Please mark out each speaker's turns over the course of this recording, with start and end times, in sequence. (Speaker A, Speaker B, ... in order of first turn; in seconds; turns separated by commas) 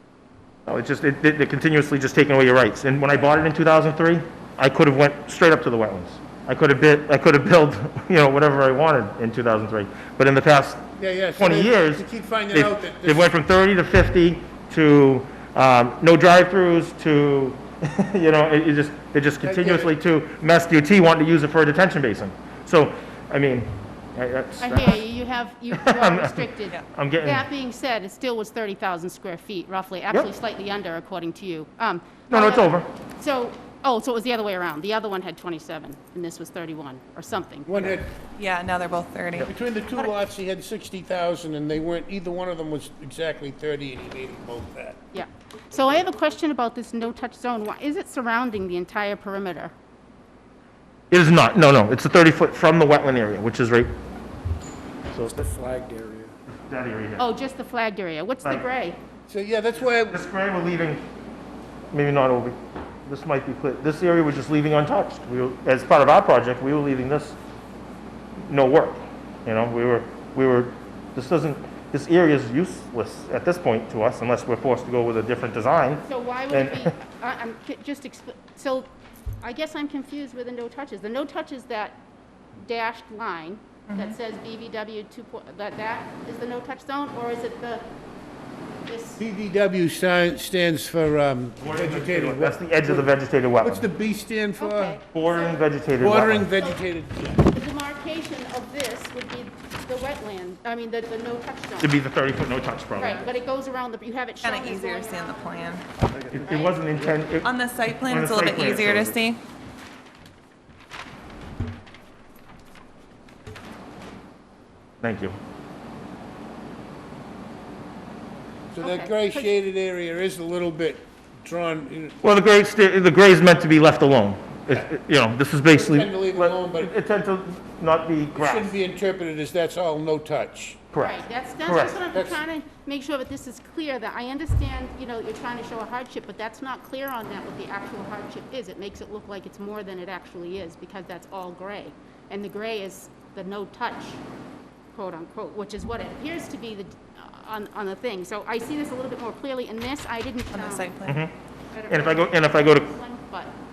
Speaker A: 0.7-10.9, Speaker B: 11.0-13.3, Speaker A: 11.4-25.0, Speaker B: 19.4-19.9, Speaker C: 24.6-37.9, Speaker A: 25.7-27.5, Speaker A: 32.3-32.9, Speaker B: 37.7-38.1, Speaker D: 38.4-39.5, Speaker B: 39.4-45.0, Speaker C: 45.1-49.7, Speaker A: 51.1-53.9, Speaker A: 55.1-55.4, Speaker B: 55.3-56.3, Speaker A: 56.5-57.3, Speaker C: 57.2-59.0, Speaker B: 59.3-60.2, Speaker A: 60.1-61.0, Speaker A: 61.9-67.4, Speaker A: 68.5-76.9, Speaker C: 76.1-78.9, Speaker C: 79.4-82.0, Speaker C: 82.6-87.8, Speaker D: 83.9-84.2, Speaker C: 88.9-89.2, Speaker B: 89.2-93.1, Speaker A: 91.6-93.9, Speaker B: 93.6-95.0, Speaker C: 94.6-95.6, Speaker A: 95.1-96.5, Speaker B: 96.0-97.5, Speaker C: 97.5-101.9, Speaker A: 101.8-103.3, Speaker C: 103.0-105.8, Speaker D: 104.4-105.9, Speaker A: 106.3-109.2, Speaker C: 106.4-106.8, Speaker D: 107.4-109.4, Speaker A: 115.0-115.3, Speaker B: 118.7-122.2, Speaker C: 118.8-119.5, Speaker A: 122.2-128.8, Speaker B: 125.7-126.9, Speaker B: 128.3-130.8, Speaker A: 130.9-132.0, Speaker C: 131.0-144.2, Speaker B: 132.1-132.4, Speaker C: 144.9-150.9, Speaker D: 150.5-151.2, Speaker A: 151.1-151.3, Speaker C: 151.7-153.6, Speaker A: 151.9-152.9